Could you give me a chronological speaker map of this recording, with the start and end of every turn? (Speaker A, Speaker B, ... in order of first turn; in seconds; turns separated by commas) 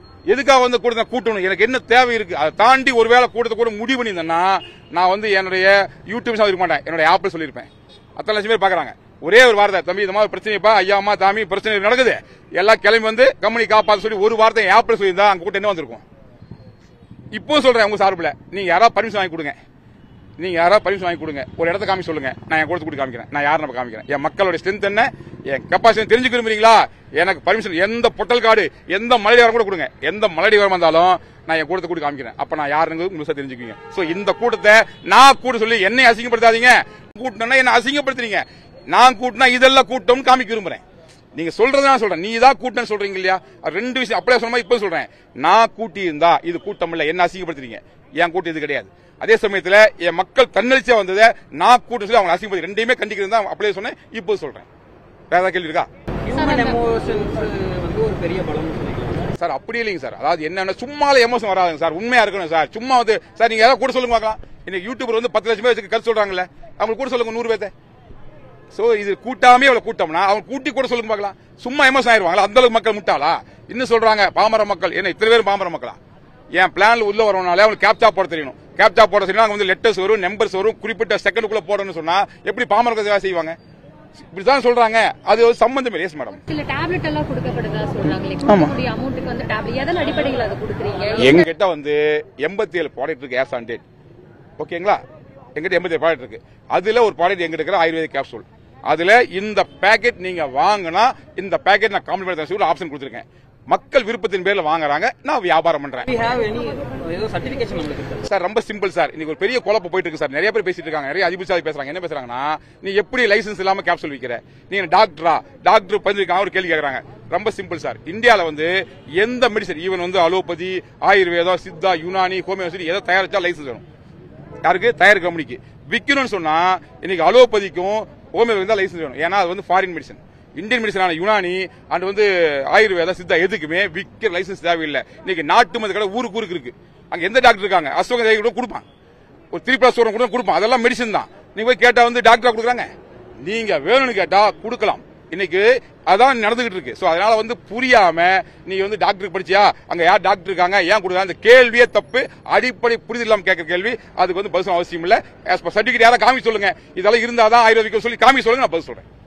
Speaker A: 0.3-16.0, Speaker A: 17.3-19.6, Speaker A: 20.4-40.8, Speaker A: 41.4-54.6, Speaker A: 55.3-55.9, Speaker B: 56.2-59.3, Speaker C: 56.4-56.8, Speaker A: 59.4-67.7, Speaker A: 68.7-76.0, Speaker A: 76.6-83.5, Speaker A: 84.3-86.4, Speaker C: 86.5-91.4, Speaker A: 88.4-88.7, Speaker A: 91.2-93.8, Speaker A: 94.6-95.0, Speaker A: 95.5-106.1, Speaker B: 106.1-108.2, Speaker A: 108.2-123.8, Speaker A: 124.6-138.8, Speaker A: 139.5-142.9, Speaker A: 143.4-159.0